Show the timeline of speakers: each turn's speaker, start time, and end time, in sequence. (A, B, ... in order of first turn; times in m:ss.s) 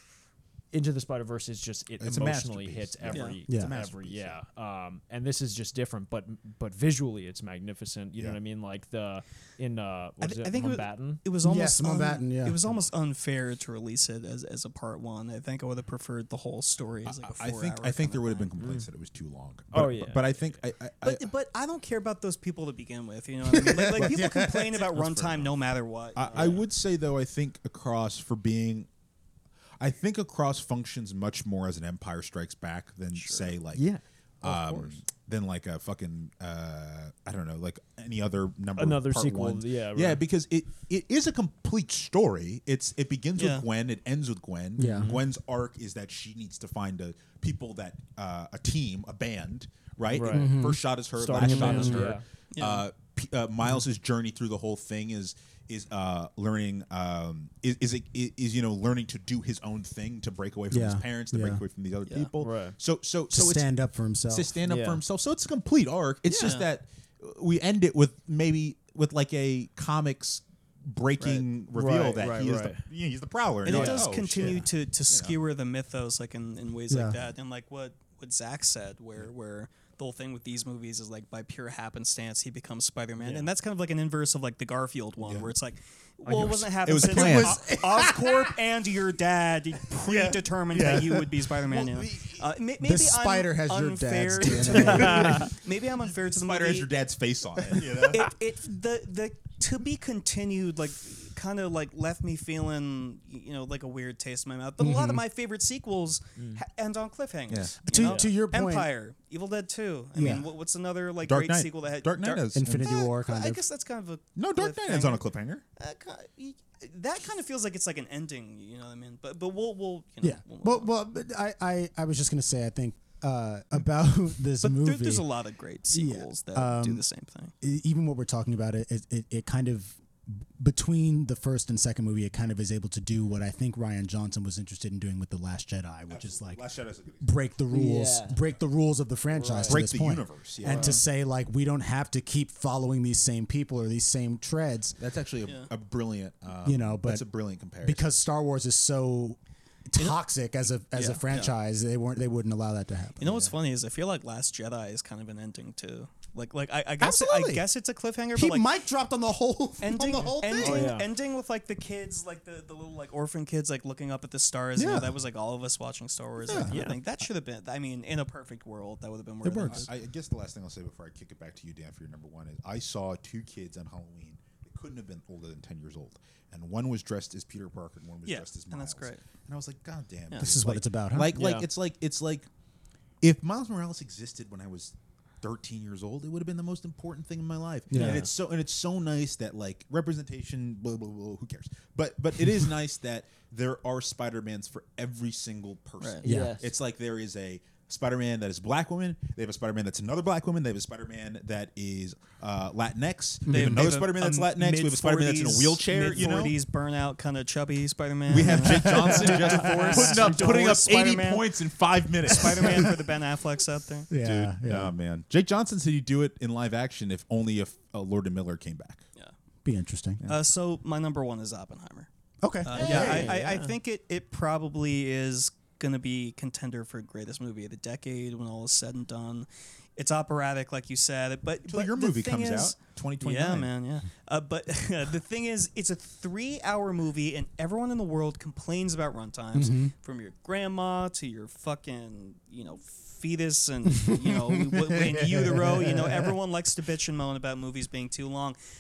0:00.7-0:11.2 A
0:02.0-0:04.4 B
0:03.1-0:03.4 C
0:03.5-0:03.7 D
0:10.2-0:18.5 C
0:11.4-0:12.8 D
0:17.0-0:21.3 B
0:18.6-0:18.9 A
0:19.7-0:20.3 A
0:21.0-0:26.6 C
0:23.5-0:25.4 D
0:25.0-0:25.5 B
0:26.1-0:28.9 B
0:26.3-0:26.6 A
0:29.8-0:33.8 B
0:33.1-0:33.5 C
0:33.7-0:35.0 A
0:34.4-1:03.7 B
0:38.8-0:40.2 A
0:43.4-0:43.6 C
0:44.8-0:45.1 D
0:44.9-0:45.2 A
0:50.1-0:50.6 A
0:50.3-0:50.8 D
0:51.2-0:52.2 A
0:51.3-0:52.1 D
0:51.5-0:52.0 C
0:52.5-0:52.8 C
1:00.7-1:01.6 D
1:02.4-1:02.8 A
1:03.3-1:04.6 D
1:04.3-1:15.4 B
1:04.6-1:05.0 A
1:06.3-1:06.7 C
1:11.2-1:11.4 C
1:11.7-1:12.8 A
1:13.6-1:36.9 C
1:13.6-1:14.0 A
1:16.9-1:17.2 D
1:23.2-1:23.5 A
1:25.2-1:25.5 B
1:26.3-1:26.7 A
1:26.4-1:28.4 B
1:27.0-1:28.2 D
1:30.0-1:32.5 B
1:30.7-1:31.0 D
1:32.8-1:35.5 D
1:34.5-1:35.5 B
1:34.8-1:35.5 A
1:36.0-1:38.3 B
1:37.8-1:38.1 D
1:38.1-1:55.2 C
1:44.8-1:45.2 D
1:46.4-1:46.6 A
1:47.5-1:47.8 B
1:47.8-1:48.9 D
1:48.0-1:48.3 A
1:50.1-1:50.5 D
1:51.2-1:53.0 B
1:52.5-1:53.6 D
1:54.4-1:55.6 B
1:55.8-2:00.9 C
2:00.2-2:05.2 D
2:04.6-2:07.5 C
2:05.9-2:07.0 D
2:07.6-2:16.6 D
2:16.1-2:17.4 B
2:17.2-2:25.0 D
2:17.7-2:18.4 A
2:19.3-2:19.8 A
2:19.6-2:21.0 B
2:20.6-2:21.0 A
2:20.7-2:21.0 C
2:25.0-2:28.1 B
2:26.6-2:27.2 D
2:27.8-2:33.5 D
2:31.3-2:31.5 C
2:33.2-2:38.7 C
2:37.0-2:37.6 D
2:38.3-2:40.9 D
2:39.8-2:49.9 C
2:40.5-2:41.1 A
2:44.8-2:45.2 D
2:46.4-2:46.8 D
2:46.7-2:47.0 A
2:49.4-2:49.9 D
2:49.5-3:02.5 B
2:58.2-2:59.2 C
3:00.4-3:01.4 D
3:01.3-3:01.6 A
3:03.2-3:26.6 B
3:07.9-3:08.3 D
3:07.9-3:08.3 A
3:16.0-3:16.2 C
3:16.2-3:16.6 D
3:16.3-3:16.7 A
3:23.4-3:23.9 D
3:23.5-3:31.4 C
3:28.3-3:33.0 B
3:28.4-3:30.8 D
3:32.2-3:34.1 C
3:32.4-3:32.9 D
3:34.1-3:34.9 D
3:34.1-3:39.0 B
3:39.6-3:40.3 D
3:40.2-3:42.1 C
3:42.4-3:43.3 D
3:42.6-4:08.6 C
3:42.8-3:43.8 A
3:42.8-3:43.3 B
3:51.6-3:53.7 B
3:59.5-3:59.9 D
4:03.8-4:06.4 D